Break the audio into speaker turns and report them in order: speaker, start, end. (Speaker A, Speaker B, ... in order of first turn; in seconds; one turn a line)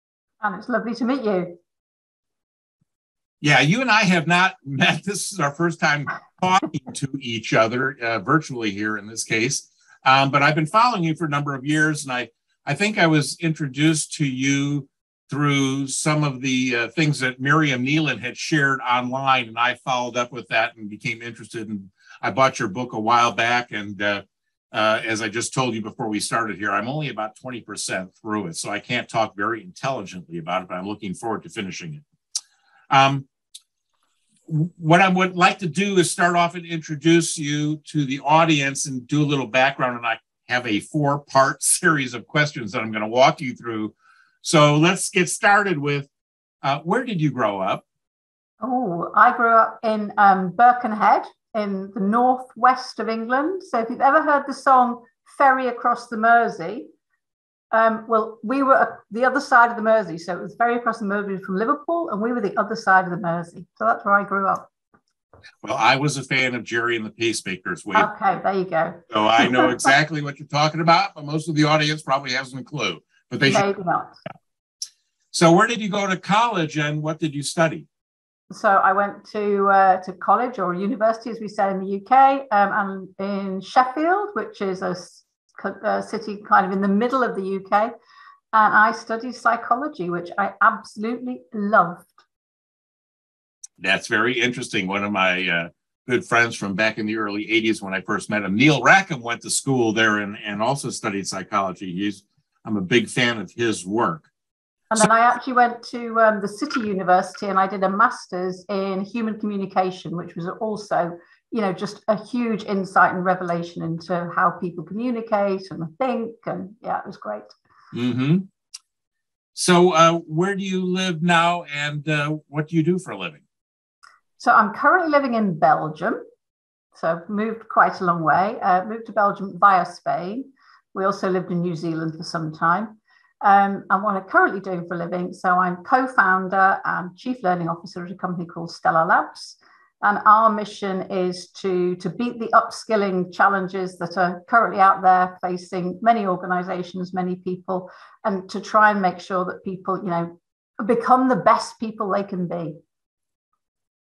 Speaker A: 0.4-1.5
Speaker B: 3.4-32.0
Speaker B: 32.9-33.3
Speaker B: 34.5-46.1
Speaker B: 46.6-47.8
Speaker A: 48.6-56.9
Speaker A: 57.7-64.7
Speaker B: 65.6-68.1
Speaker A: 67.9-69.8
Speaker B: 69.1-73.7
Speaker A: 73.4-74.2
Speaker B: 75.3-77.9
Speaker A: 78.5-87.9
Speaker A: 88.5-92.2
Speaker B: 93.8-104.3
Speaker A: 104.9-117.5
Speaker B: 117.9-118.5
Speaker B: 119.5-123.4
Speaker A: 124.4-126.2
Speaker A: 126.9-152.8